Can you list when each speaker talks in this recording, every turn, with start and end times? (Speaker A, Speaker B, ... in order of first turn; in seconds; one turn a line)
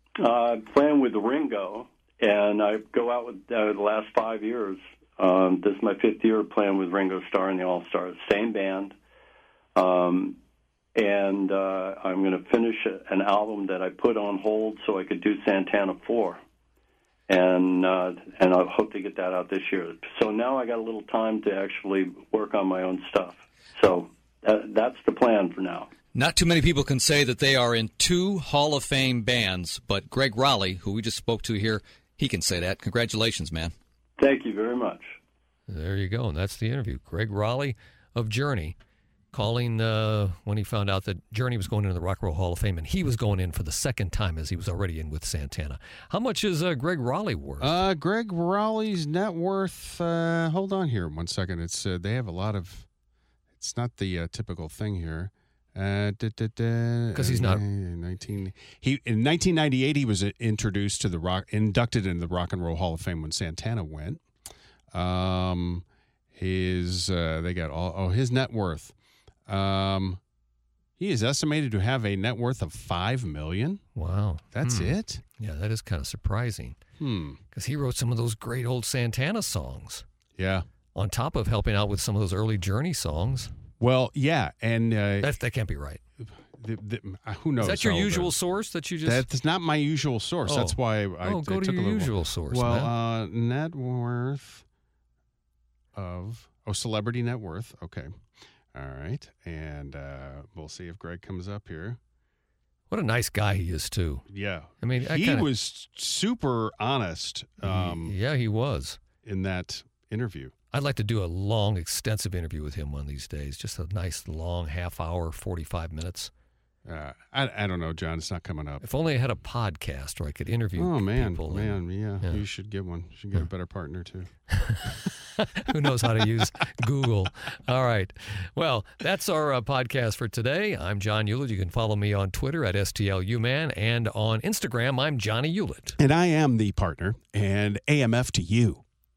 Speaker A: 0.1-8.9
Speaker A: 9.8-10.3
Speaker A: 10.9-16.4
Speaker A: 17.3-25.9
Speaker B: 26.1-33.7
Speaker A: 34.2-35.1
Speaker C: 35.7-38.8
Speaker C: 39.3-47.9
Speaker D: 47.6-52.9
Speaker D: 53.6-64.2
Speaker C: 57.1-57.6
Speaker D: 64.9-68.9
Speaker D: 69.5-70.2
Speaker D: 71.0-73.8
Speaker C: 74.0-76.8
Speaker D: 74.5-75.2
Speaker D: 77.0-77.4
Speaker C: 77.5-80.0
Speaker D: 80.3-80.7
Speaker C: 80.9-83.5
Speaker D: 83.8-85.3
Speaker C: 85.2-86.0
Speaker D: 86.2-88.3
Speaker C: 87.6-89.3
Speaker D: 89.0-94.6
Speaker C: 90.4-92.9
Speaker D: 95.9-98.1
Speaker D: 98.7-102.0
Speaker C: 102.9-104.2
Speaker D: 104.3-108.1
Speaker C: 104.8-105.5
Speaker C: 107.6-109.0
Speaker D: 109.2-110.5
Speaker C: 110.7-116.3
Speaker D: 116.8-118.8
Speaker C: 118.8-122.4
Speaker D: 120.8-124.3
Speaker C: 124.6-136.0
Speaker D: 136.0-138.8